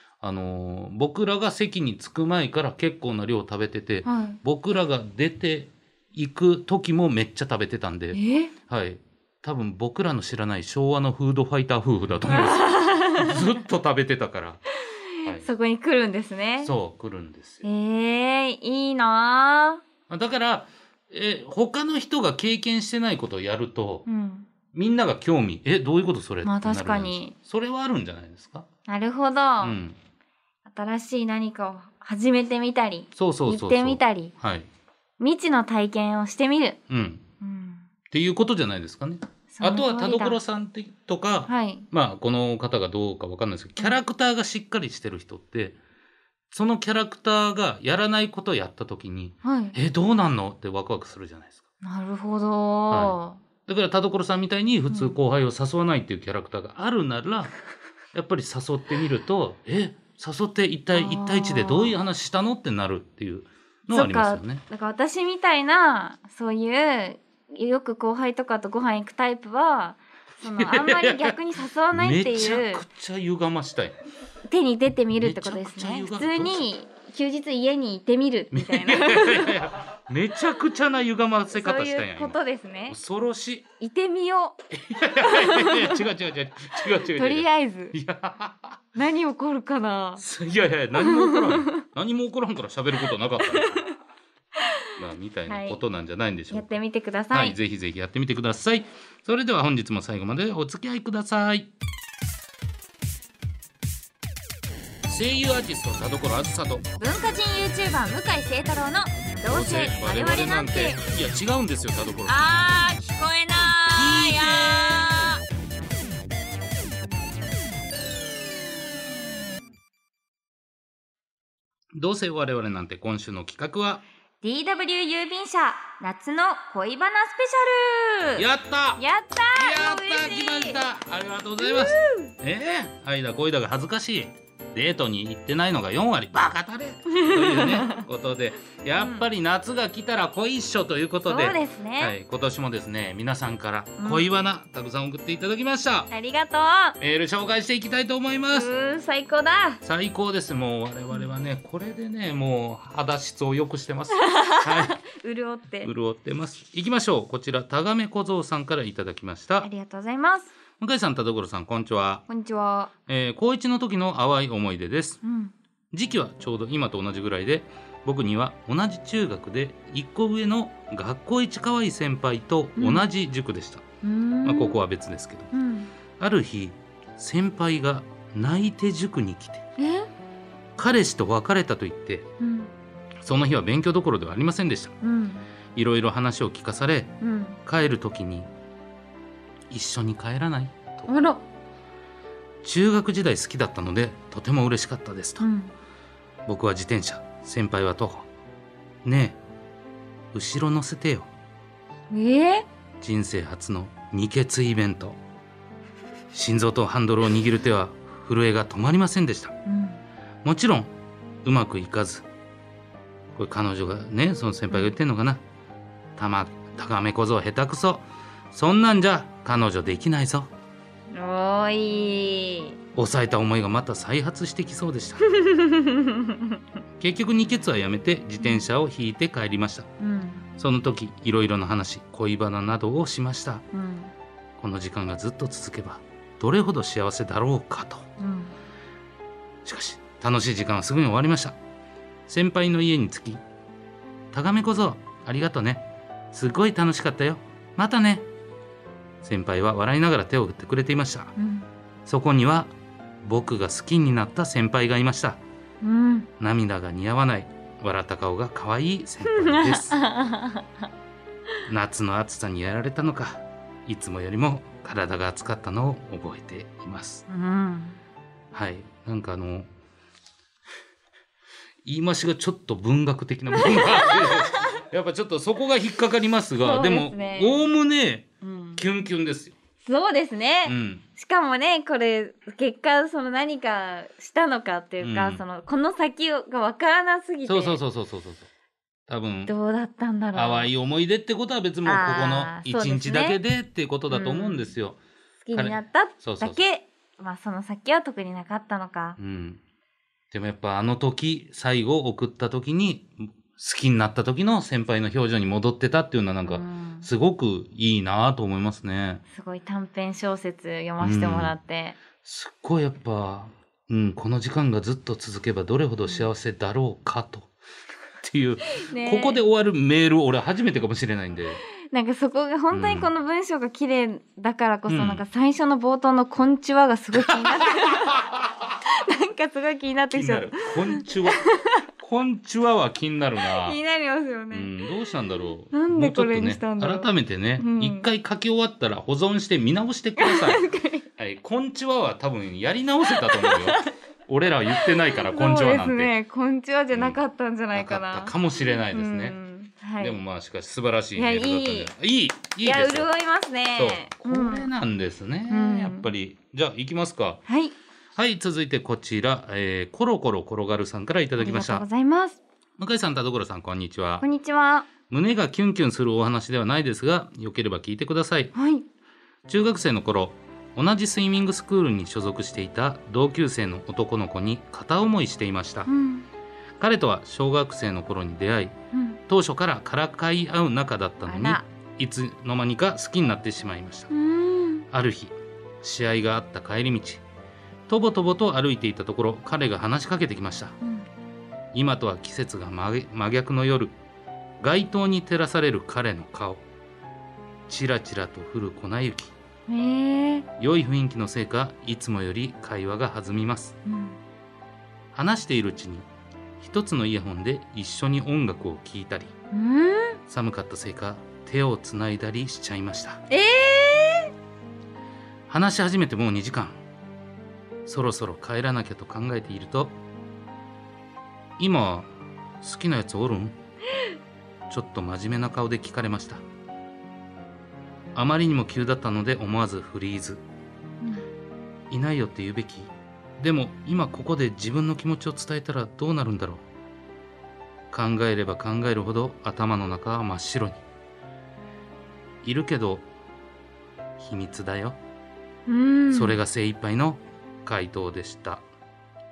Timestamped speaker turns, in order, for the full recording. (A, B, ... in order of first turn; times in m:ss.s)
0:00.2-0:14.6 A
0:04.0-0:04.4 B
0:08.1-0:08.5 B
0:12.3-0:13.4 B
0:14.7-0:16.7 B
0:16.6-0:17.6 A
0:17.6-0:19.8 B
0:20.1-0:24.0 A
0:24.0-0:24.5 B
0:24.7-0:28.7 A
0:26.4-0:27.3 B
0:28.9-0:29.8 B
0:29.6-0:30.0 A
0:30.6-0:34.3 B
0:33.1-0:34.7 A
0:35.2-0:36.8 B
0:36.9-0:37.2 A
0:37.4-0:37.9 B
0:38.1-0:45.8 A
0:39.5-0:40.4 B
0:41.5-0:41.9 B
0:46.5-0:51.6 A
0:49.4-0:49.8 B
0:51.8-0:53.4 B
0:52.9-0:57.5 A
0:54.9-0:55.2 B
0:58.1-1:04.6 A
1:00.9-1:02.0 B
1:03.9-1:12.8 B
1:10.4-1:11.3 A
1:11.9-1:14.0 A
1:14.5-1:19.6 B
1:15.2-1:16.7 A
1:18.5-1:23.6 A
1:21.5-1:23.0 B
1:23.8-1:24.6 B
1:24.7-1:28.8 A
1:25.1-1:26.0 B
1:27.1-1:27.9 B
1:28.9-1:30.2 B
1:30.2-1:33.9 A
1:30.9-1:31.8 B
1:33.4-1:33.9 B
1:34.6-1:35.8 B
1:35.0-1:36.8 A
1:36.5-1:37.6 B
1:37.3-1:41.7 A
1:45.0-1:46.8 A
1:47.0-1:51.0 B
1:49.4-1:52.8 A
1:52.2-1:55.4 B
1:53.9-1:55.2 A
2:01.9-2:04.0 A
2:04.4-2:08.4 B
2:08.4-2:26.1 A
2:09.0-2:10.8 B
2:11.6-2:12.3 B
2:17.1-2:18.0 B
2:19.0-2:19.2 B
2:21.2-2:22.1 B
2:24.0-2:24.2 B
2:26.1-2:27.0 B
2:27.0-2:28.7 A
2:28.5-2:29.8 B
2:29.8-2:35.0 A
2:34.1-2:35.9 B
2:35.8-2:39.7 A
2:39.6-2:40.5 B
2:40.8-2:42.2 A
2:42.3-2:42.9 B
2:43.1-2:45.2 A
2:45.2-2:45.5 B
2:45.9-2:53.8 A
2:52.8-2:53.1 B
2:54.0-2:54.8 B
2:54.4-2:55.5 A
2:55.5-2:55.9 B
2:56.2-2:59.6 A
2:59.8-3:00.1 B
3:00.8-3:02.3 A
3:02.4-3:02.7 B
3:03.2-3:04.9 A
3:05.0-3:05.4 B
3:05.7-3:07.1 A
3:07.2-3:07.6 B
3:07.6-3:08.5 A
3:09.7-3:11.1 A
3:11.1-3:11.4 B
3:12.6-3:15.4 A
3:15.4-3:15.7 B
3:16.4-3:18.3 A
3:19.0-3:19.4 A
3:20.3-3:21.3 A
3:22.1-3:22.7 B
3:23.0-3:25.2 A
3:26.3-3:29.5 A
3:29.6-3:30.0 B
3:30.4-3:30.9 A
3:31.4-3:32.2 A
3:33.3-3:35.4 A
3:36.2-3:40.5 A
3:41.1-3:42.8 B
3:43.0-3:45.2 A
3:45.2-3:46.6 B
3:47.0-3:49.9 A
3:48.4-3:48.6 B
3:50.0-3:50.5 B
3:50.6-3:53.6 A
3:53.7-3:54.1 B
3:54.6-3:58.1 A
3:58.2-3:58.5 B
3:59.6-4:01.6 A
4:02.3-4:03.4 A
4:04.3-4:08.2 A
4:09.2-4:11.3 A
4:11.4-4:11.7 B
4:12.0-4:12.7 A
4:13.2-4:15.4 A
4:15.8-4:16.3 B
4:16.4-4:20.0 A
4:19.2-4:20.7 B
4:21.7-4:27.2 A
4:27.3-4:28.0 B
4:28.5-4:29.7 A
4:31.8-4:39.5 A
4:33.5-4:34.8 B
4:36.6-4:37.6 B
4:38.4-4:38.8 B
4:39.8-4:47.8 B
4:40.6-4:41.0 A
4:45.0-4:45.4 A
4:47.5-4:48.5 A
4:49.1-4:49.5 A
4:49.5-4:50.7 B
4:50.3-4:55.0 A
4:51.8-4:53.4 B
4:54.1-4:54.7 B
4:55.4-4:59.2 B
4:55.5-4:56.6 A
4:59.2-4:59.6 A
5:00.3-5:09.2 A
5:06.4-5:07.1 B
5:09.3-5:12.0 B
5:11.0-5:11.5 A
5:12.2-5:17.5 A
5:18.2-5:21.6 A
5:18.7-5:19.4 B
5:21.8-5:28.2 B
5:22.7-5:23.1 A
5:24.9-5:25.2 A
5:27.1-5:28.5 A
5:28.8-5:31.8 B
5:30.1-5:31.4 A
5:32.0-5:33.8 A
5:33.4-5:34.8 B
5:34.5-5:46.1 A
5:35.7-5:38.1 B
5:40.2-5:41.0 B
5:43.1-5:43.9 B
5:44.7-5:50.2 B
5:46.9-5:47.2 A
5:47.7-5:49.4 A
5:50.0-5:53.1 A
5:51.2-5:51.9 B
5:52.6-5:54.7 B
5:53.8-5:57.4 A
5:55.5-5:56.1 B
5:57.5-5:57.7 B
5:58.2-6:01.8 A
6:01.4-6:02.4 B
6:02.8-6:04.2 A
6:04.2-6:04.9 B
6:05.1-6:08.5 A
6:08.5-6:08.8 B
6:09.5-6:15.9 A
6:15.8-6:16.3 B
6:16.8-6:18.7 A
6:18.9-6:19.2 B
6:19.3-6:24.1 A
6:21.2-6:21.6 B
6:24.1-6:24.9 B
6:24.9-6:27.2 A
6:27.9-6:30.8 A
6:30.8-6:31.1 B
6:31.7-6:34.0 A
6:34.6-6:36.6 A
6:37.7-6:39.3 A
6:39.7-6:40.5 B
6:40.6-6:43.8 A
6:43.8-6:44.2 B
6:45.1-6:46.1 A
6:46.6-6:49.3 A
6:49.5-6:50.2 B
6:50.3-6:53.2 A
6:53.3-6:54.3 B
6:55.5-6:56.8 A
6:57.8-6:59.9 A
7:01.6-7:03.6 A
7:04.7-7:06.4 A
7:08.1-7:10.4 A
7:11.0-7:11.3 B
7:11.9-7:16.6 A
7:17.9-7:20.8 A
7:22.4-7:23.0 A
7:24.2-7:25.0 A
7:25.7-7:26.4 B
7:26.1-7:28.6 A